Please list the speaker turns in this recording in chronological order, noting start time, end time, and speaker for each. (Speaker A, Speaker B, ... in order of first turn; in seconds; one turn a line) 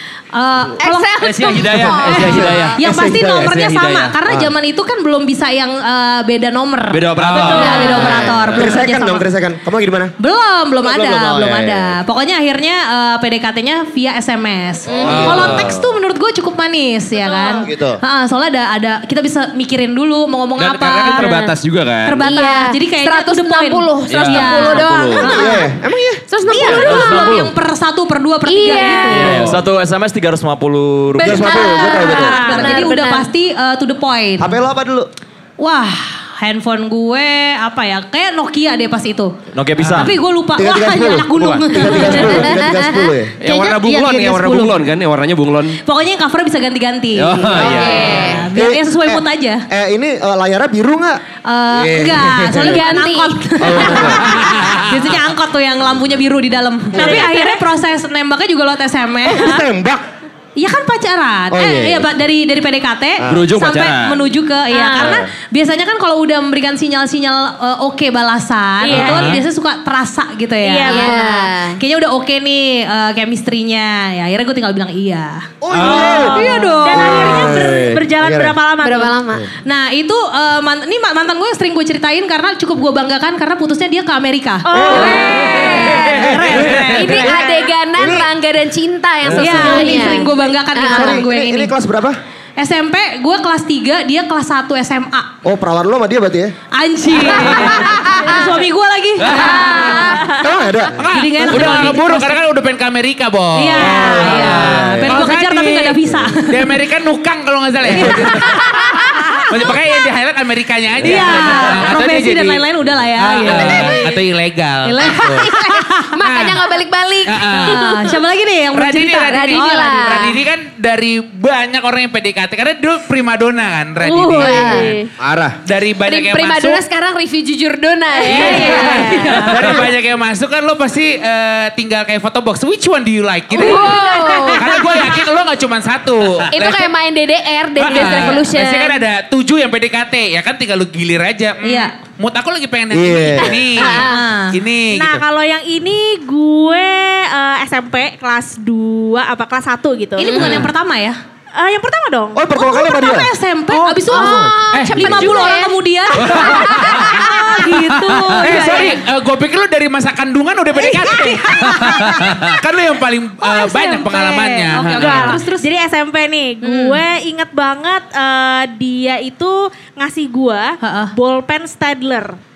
Speaker A: 0.3-9.2
Speaker B: 0.8-2.7
Speaker C: 1.2-4.5
Speaker D: 2.1-3.5
Speaker C: 6.9-8.8
Speaker E: 7.2-8.0
Speaker B: 7.5-8.2
Speaker D: 8.5-10.1
Speaker A: 10.2-21.5
Speaker D: 10.8-12.0
Speaker B: 14.9-15.5
Speaker D: 14.9-15.5
Speaker C: 15.0-15.8
Speaker B: 17.2-17.6
Speaker D: 17.6-18.0
Speaker C: 20.6-22.3
Speaker A: 22.0-25.6
Speaker B: 22.2-25.6
Speaker C: 24.1-25.4
Speaker D: 25.3-26.8
Speaker B: 26.3-27.3
Speaker A: 26.5-29.5
Speaker F: 26.6-27.5
Speaker B: 28.5-29.4
Speaker F: 29.1-31.6
Speaker C: 29.1-29.6
Speaker B: 31.2-33.3
Speaker D: 31.2-32.8
Speaker A: 31.7-34.5
Speaker D: 34.4-35.1
Speaker A: 35.6-39.4
Speaker F: 39.5-40.2
Speaker A: 39.9-42.7
Speaker D: 40.5-43.4
Speaker F: 41.3-41.8
Speaker B: 42.2-43.1
Speaker C: 43.4-45.8
Speaker A: 43.4-44.8
Speaker A: 45.8-49.7
Speaker C: 47.1-48.4
Speaker B: 47.6-48.5
Speaker D: 48.5-52.9
Speaker A: 51.4-59.6
Speaker B: 52.6-54.2
Speaker D: 53.6-54.4
Speaker G: 56.9-57.6
Speaker D: 59.2-60.0
Speaker A: 60.6-71.2
Speaker D: 61.5-62.1
Speaker D: 63.2-63.5
Speaker C: 63.3-64.3
Speaker G: 64.7-65.1
Speaker G: 68.8-69.4
Speaker E: 68.9-69.4
Speaker G: 70.6-71.5
Speaker B: 70.8-71.8
Speaker A: 71.8-77.3
Speaker D: 75.6-78.6
Speaker E: 75.7-76.3
Speaker G: 76.0-79.2
Speaker B: 78.8-79.5
Speaker A: 79.6-87.4
Speaker G: 84.7-86.3
Speaker D: 84.7-88.3
Speaker B: 84.9-91.2
Speaker C: 86.5-86.9
Speaker D: 89.2-90.0
Speaker A: 89.3-91.7
Speaker D: 90.9-92.2
Speaker A: 92.6-95.3
Speaker D: 95.4-96.5
Speaker A: 96.7-100.2
Speaker B: 98.1-98.4
Speaker B: 99.3-100.4
Speaker D: 100.3-102.3
Speaker E: 101.0-108.6
Speaker A: 101.1-102.2
Speaker A: 103.5-106.7
Speaker D: 103.8-105.2
Speaker A: 107.9-108.5
Speaker B: 108.5-109.2
Speaker E: 109.5-112.6
Speaker A: 111.0-114.0
Speaker E: 113.2-115.5
Speaker B: 113.7-114.1
Speaker A: 114.8-116.1
Speaker B: 115.2-118.1
Speaker E: 116.2-116.6
Speaker E: 117.2-117.8
Speaker A: 117.6-120.3
Speaker E: 118.7-124.9
Speaker B: 119.2-120.4
Speaker B: 124.1-125.1
Speaker G: 124.2-125.0
Speaker D: 124.6-125.5
Speaker E: 125.6-126.8
Speaker B: 126.0-129.8
Speaker E: 128.2-136.9
Speaker A: 128.3-129.8
Speaker B: 133.5-135.0
Speaker G: 133.8-134.4
Speaker B: 136.5-139.0
Speaker E: 137.8-145.2
Speaker A: 141.6-141.9
Speaker D: 142.9-143.7
Speaker B: 143.4-144.2
Speaker A: 144.1-144.6
Speaker G: 144.9-150.4
Speaker A: 150.2-151.2
Speaker B: 150.2-150.6
Speaker G: 151.6-152.4
Speaker D: 152.3-153.3
Speaker A: 152.5-159.0
Speaker B: 154.1-157.5
Speaker E: 154.7-155.2
Speaker E: 156.2-157.3
Speaker E: 158.4-165.4
Speaker G: 158.5-158.9
Speaker A: 160.9-162.3
Speaker C: 162.1-162.5
Speaker A: 163.4-165.7
Speaker G: 164.8-172.4
Speaker A: 166.6-167.0
Speaker A: 170.8-171.1